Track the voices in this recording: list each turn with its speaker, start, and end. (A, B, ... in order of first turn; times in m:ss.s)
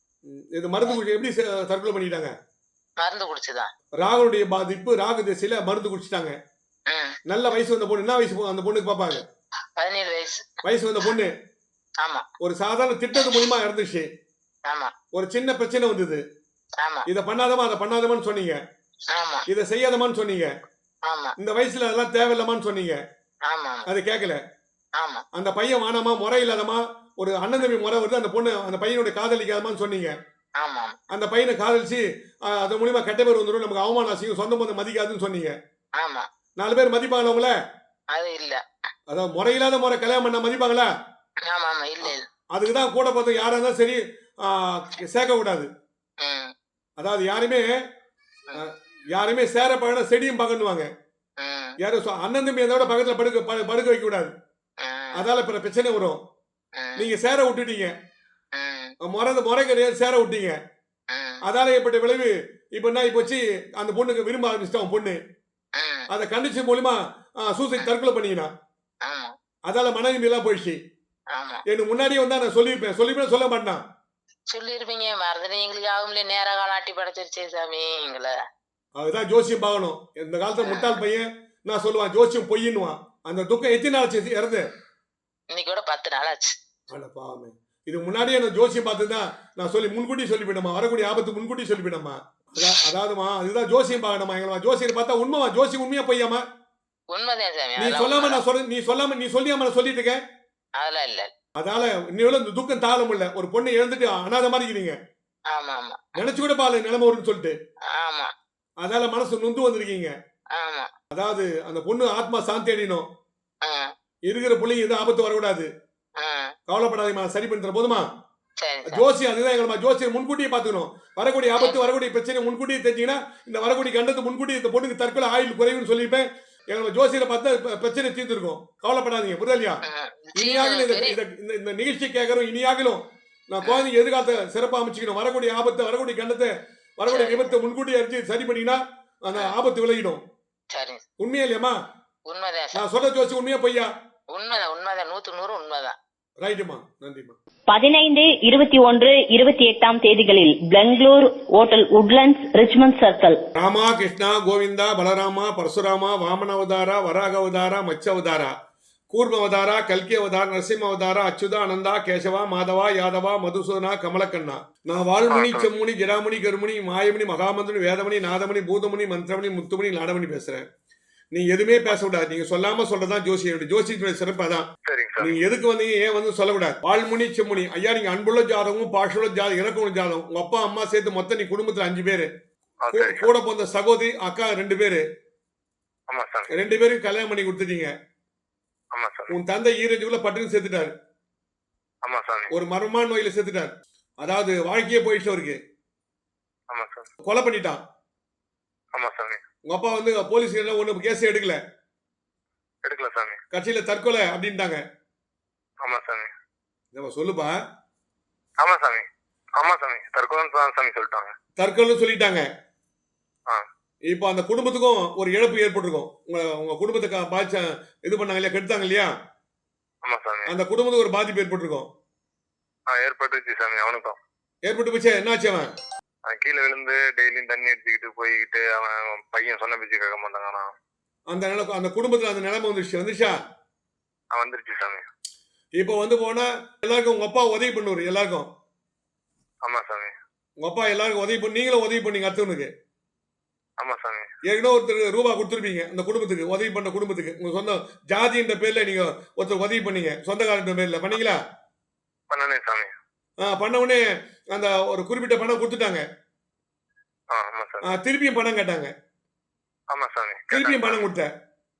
0:00.3-0:02.3 A
0:03.0-0:03.7 B
0:04.0-0:06.3 A
0:06.9-0:07.2 B
0:07.3-0:09.2 A
0:09.8-0:10.5 B
0:10.6-0:11.3 A
0:12.4-0:14.1 A
0:13.2-0:13.5 B
0:14.7-0:14.9 B
0:15.1-0:16.2 A
0:16.8-0:17.1 B
0:17.1-0:18.6 A
0:19.1-0:19.4 B
0:19.5-0:20.5 A
0:21.1-0:21.3 B
0:21.4-0:23.0 A
0:23.5-0:23.9 B
0:23.9-0:24.4 A
0:25.0-0:25.2 B
0:25.3-0:30.1 A
0:30.6-0:31.0 B
0:31.1-0:35.5 A
0:36.0-0:36.3 B
0:36.6-0:37.5 A
0:38.1-0:38.6 B
0:39.1-0:40.9 A
0:41.5-0:42.2 B
0:42.0-0:45.7 A
0:46.2-0:46.5 B
0:47.0-0:47.6 A
0:48.6-0:50.9 A
0:51.4-0:51.7 B
0:51.8-0:54.3 A
0:54.8-0:55.2 B
0:55.1-0:56.2 A
0:56.8-0:57.1 B
0:57.0-0:57.9 A
0:58.5-0:58.9 B
0:59.0-1:00.6 A
1:01.1-1:01.4 B
1:01.4-1:05.2 A
1:05.8-1:06.0 B
1:06.1-1:08.5 A
1:09.0-1:09.3 B
1:09.7-1:10.8 A
1:11.3-1:11.6 B
1:11.7-1:13.8 A
1:14.5-1:18.3 B
1:19.0-1:24.6 A
1:20.6-1:21.0 B
1:25.5-1:26.6 B
1:26.9-1:36.4 A
1:37.1-1:38.4 B
1:37.8-1:40.2 A
1:40.8-1:41.3 B
1:41.6-1:45.0 A
1:45.5-1:46.1 B
1:46.2-1:47.5 A
1:47.9-1:48.3 B
1:48.8-1:50.1 A
1:50.5-1:50.9 B
1:51.1-1:53.0 A
1:53.6-1:53.9 B
1:54.3-1:55.7 A
1:56.2-1:56.5 B
1:56.7-1:58.0 A
1:58.6-1:59.0 B
1:58.8-2:09.8 A
2:09.8-2:11.2 B
2:10.4-2:20.2 A
2:13.6-2:13.9 B
2:17.1-2:17.6 B
2:20.7-2:21.0 B
2:21.2-2:21.8 A
2:22.3-2:22.8 B
2:22.7-2:23.9 A
2:24.3-2:26.0 B
2:26.4-2:27.4 A
2:27.7-2:33.4 C
2:33.6-2:38.5 A
2:39.1-2:50.6 A
2:45.3-2:45.7 D
2:51.3-2:54.7 A
2:54.8-2:55.4 D
2:55.2-3:02.3 A
3:02.8-3:03.2 D
3:02.9-3:05.0 A
3:06.1-3:06.5 D
3:06.5-3:07.9 A
3:08.9-3:09.3 D
3:09.3-3:10.9 A
3:12.0-3:12.5 D
3:12.5-3:15.6 A
3:16.7-3:17.1 D
3:17.2-3:17.8 A
3:18.9-3:19.4 D
3:19.7-3:21.6 A
3:22.8-3:23.4 D
3:23.5-3:24.8 A
3:25.8-3:26.3 D
3:26.9-3:27.5 A
3:28.6-3:29.0 D
3:29.6-3:31.3 D
3:31.6-3:32.4 A
3:34.1-3:39.1 A
3:40.0-3:40.5 D
3:40.5-3:41.9 A
3:42.9-3:44.2 D
3:44.7-3:45.7 A
3:46.3-3:50.7 D
3:51.3-3:53.3 A
3:54.3-3:55.0 D
3:55.8-3:58.5 A
3:59.6-4:00.1 D
4:00.6-4:02.7 A
4:03.8-4:04.3 D
4:04.5-4:11.4 A
4:12.3-4:12.9 D
4:13.4-4:14.0 A
4:14.5-4:16.0 A
4:17.3-4:17.9 D
4:17.9-4:18.9 A
4:19.9-4:21.0 D
4:20.5-4:21.3 A